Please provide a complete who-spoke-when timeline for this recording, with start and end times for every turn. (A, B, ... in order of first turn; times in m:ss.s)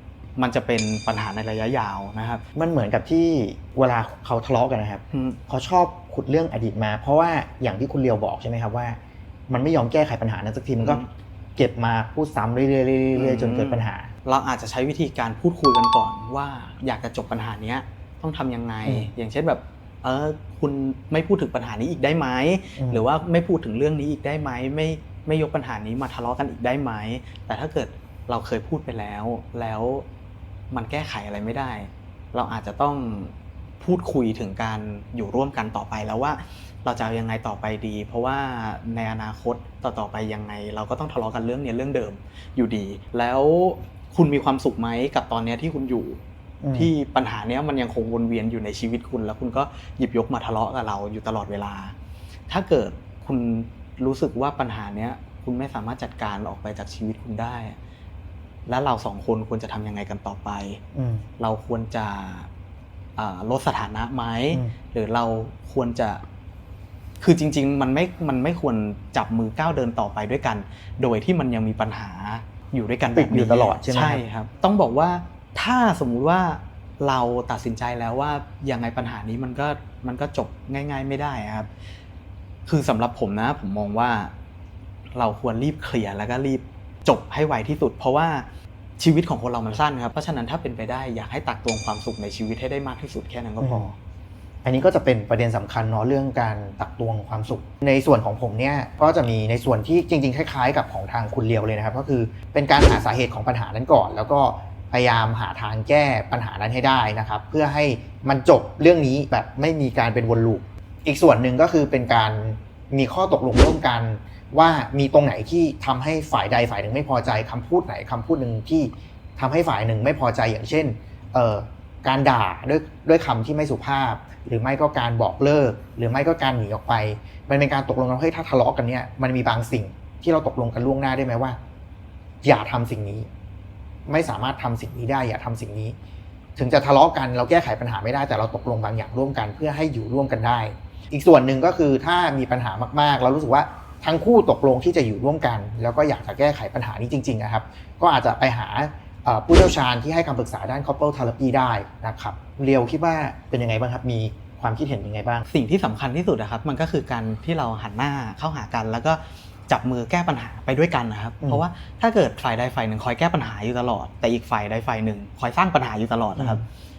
0:00.4-0:02.4 A
0:02.6-0:11.0 B
0:05.1-0:05.4 A
0:11.6-0:14.1 B
0:13.2-0:30.0 A
0:18.8-0:19.1 B
0:22.8-0:23.0 B
0:30.7-0:46.2 A
0:46.6-0:46.9 B
0:46.7-0:51.9 A
0:52.5-0:57.8 A
0:58.6-1:00.8 A
1:00.9-1:01.3 B
1:01.4-1:02.5 A
1:03.2-1:06.2 A
1:07.2-1:21.7 A
1:13.1-1:14.2 B
1:22.7-1:24.3 A
1:25.1-1:28.4 A
1:29.0-1:33.9 A
1:33.6-1:33.9 B
1:34.6-2:11.6 B
2:12.4-2:13.3 B
2:14.0-2:16.0 B
2:16.6-2:35.4 B
2:35.5-2:46.6 A
2:46.4-2:46.6 B